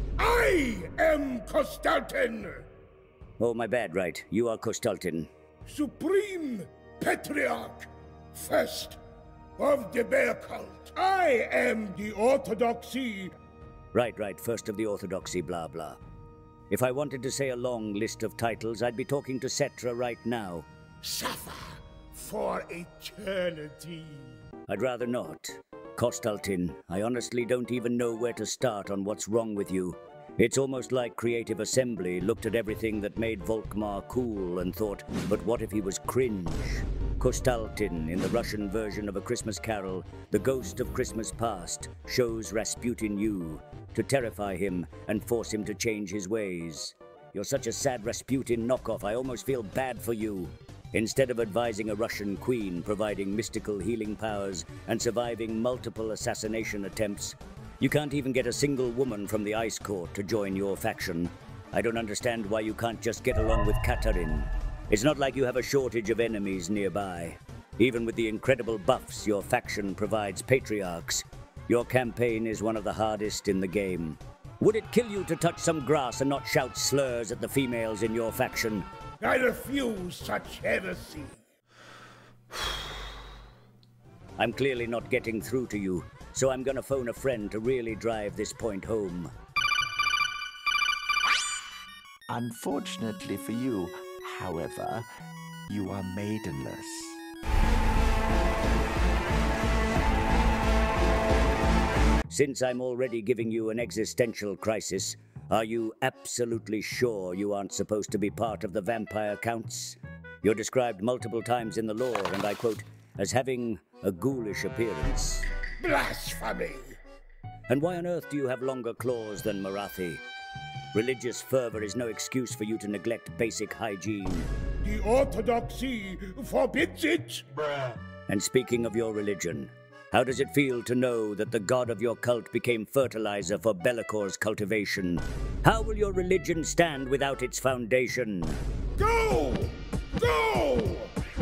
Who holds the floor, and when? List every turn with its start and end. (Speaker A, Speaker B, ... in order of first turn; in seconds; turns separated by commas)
Speaker A: 0.2-2.7, Speaker B: 3.4-5.3, Speaker A: 5.7-9.0, Speaker A: 9.6-13.3, Speaker B: 13.9-16.0, Speaker B: 16.7-20.7, Speaker A: 21.0-24.3, Speaker B: 24.7-78.8, Speaker A: 79.2-81.4, Speaker B: 84.4-89.3, Speaker C: 92.3-95.1, Speaker C: 95.7-97.2, Speaker B: 102.3-115.5, Speaker A: 115.8-116.9, Speaker B: 117.7-120.2, Speaker B: 120.9-124.5, Speaker A: 124.8-127.4, Speaker B: 128.3-138.6, Speaker A: 139.0-141.1